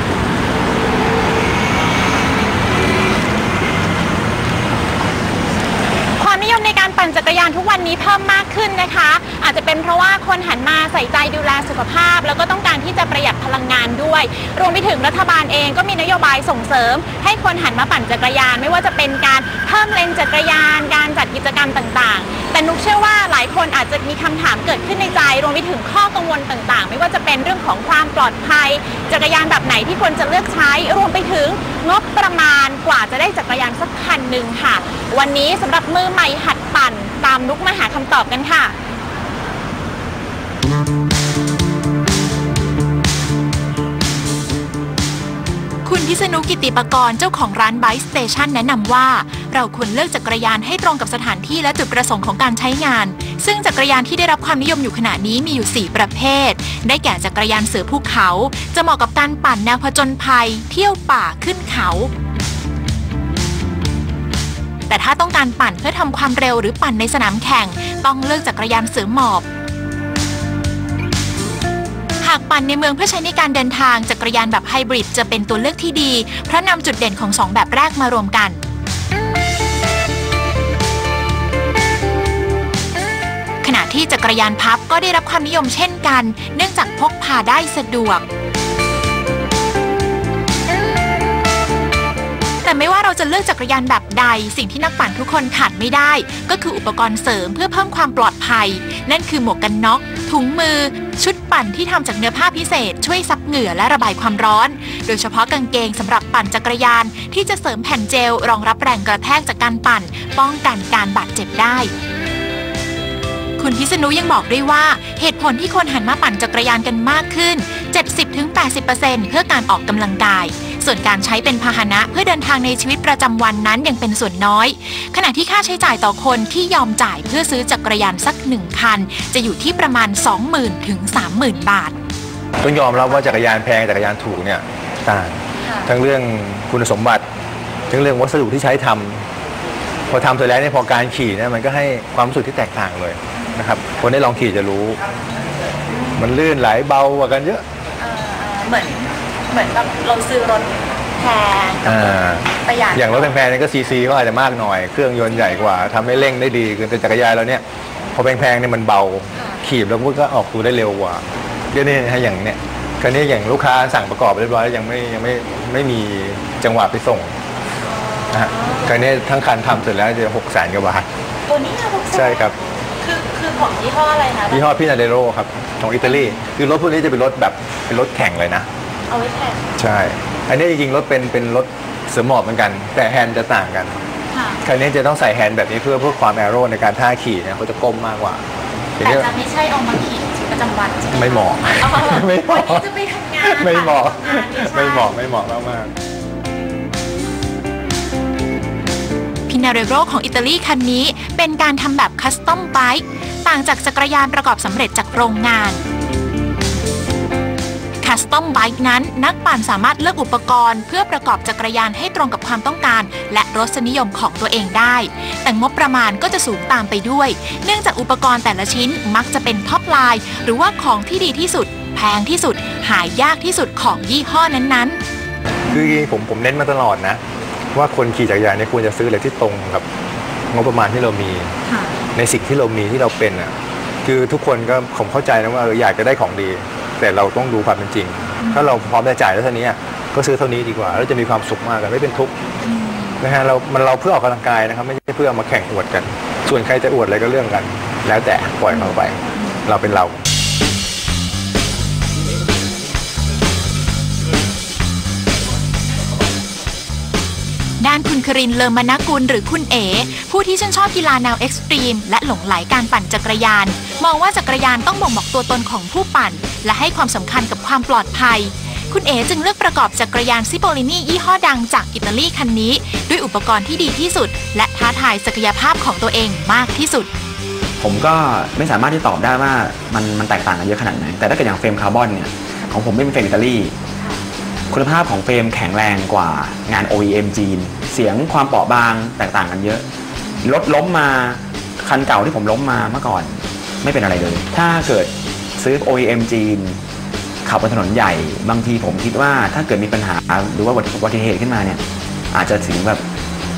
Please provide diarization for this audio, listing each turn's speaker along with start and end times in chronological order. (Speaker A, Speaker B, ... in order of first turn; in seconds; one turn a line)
Speaker A: 6.2-38.7
Speaker B: 45.9-62.1
Speaker B: 64.9-69.5
Speaker B: 72.2-78.6
Speaker B: 83.6-88.2
Speaker B: 92.6-111.9
Speaker B: 113.6-131.9
Speaker C: 132.6-137.2
Speaker C: 137.9-139.2
Speaker C: 140.1-145.0
Speaker C: 146.2-147.6
Speaker A: 149.8-150.4
Speaker C: 151.8-157.6
Speaker C: 158.2-167.3
Speaker C: 168.3-171.1
Speaker C: 172.1-172.6
Speaker C: 174.5-178.7
Speaker C: 179.8-184.0
Speaker C: 184.6-188.4
Speaker C: 189.0-189.3
Speaker B: 189.0-195.1
Speaker C: 191.1-192.8
Speaker C: 193.4-195.9
Speaker B: 199.5-205.8
Speaker B: 208.0-225.0
Speaker C: 225.7-227.2
Speaker C: 227.7-229.8
Speaker C: 230.5-231.5
Speaker C: 232.2-233.5
Speaker C: 234.1-242.3
Speaker B: 242.7-243.2
Speaker C: 243.2-250.2
Speaker B: 257.8-277.1
Speaker D: 277.8-283.8
Speaker D: 284.7-289.9
Speaker D: 290.4-296.8
Speaker D: 297.4-303.1